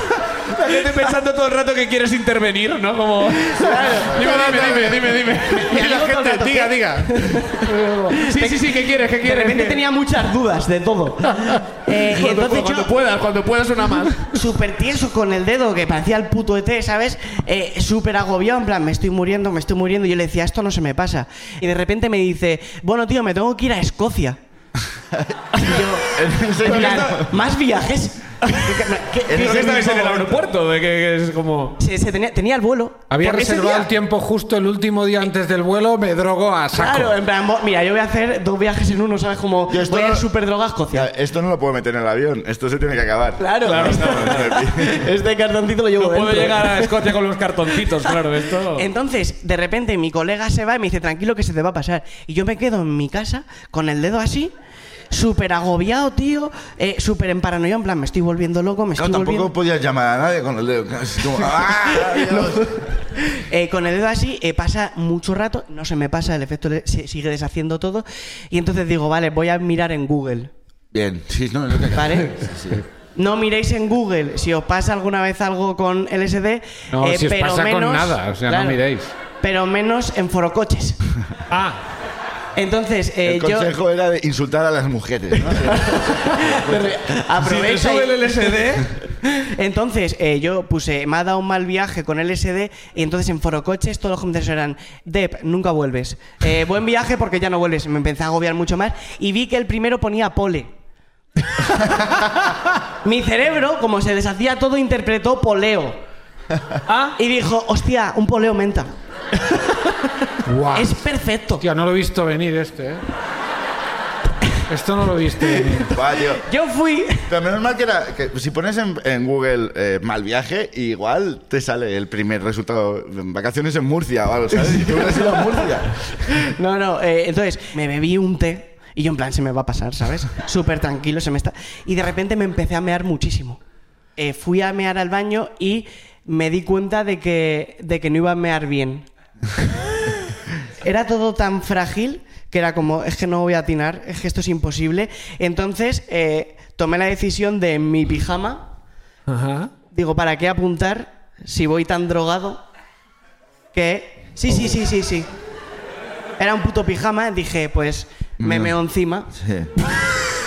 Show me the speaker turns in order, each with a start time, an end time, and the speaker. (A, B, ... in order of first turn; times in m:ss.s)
0:00.5-0:05.7 A
0:03.4-0:12.9 B
0:04.2-0:05.0 C
0:05.5-0:08.1 C
0:08.2-0:09.8 A
0:11.9-0:14.4 A
0:14.3-0:24.4 B
0:25.1-0:27.4 D
0:25.6-0:30.2 B
0:26.6-0:27.1 A
0:28.5-0:28.8 A
0:29.3-0:30.4 D
0:29.3-0:31.8 A
0:31.8-0:33.9 B
0:33.1-0:37.2 C
0:36.7-0:41.1 B
0:39.7-0:40.3 D
0:40.9-0:45.1 D
0:43.4-0:47.0 B
0:43.7-0:44.5 A
0:46.0-0:48.9 A
0:47.8-0:54.5 B
0:55.1-0:59.5 B
0:59.0-1:02.8 D
1:01.7-1:10.5 B
1:10.9-1:12.8 D
1:11.9-1:12.4 B
1:13.2-1:18.8 B
1:16.9-1:19.1 C
1:19.4-1:21.0 B
1:21.5-1:21.8 A
1:22.6-1:23.7 B
1:23.2-1:27.0 D
1:25.7-1:40.7 B
1:27.4-1:28.9 A
1:43.0-1:46.0 B
1:46.9-1:47.2 A
1:47.2-1:48.9 B
1:50.4-1:51.0 C
1:50.7-1:51.6 B
1:51.6-1:53.0 C
1:54.7-1:56.0 C
1:55.8-1:56.4 D
1:56.4-1:57.3 B
1:57.3-2:06.3 D
2:06.4-2:13.6 B
2:14.2-2:19.1 B
2:20.8-2:28.7 B
2:29.3-2:29.7 A
2:29.9-2:32.6 B
2:33.7-2:35.3 B
2:36.4-2:39.3 B
2:38.4-2:38.8 D
2:39.3-2:39.7 D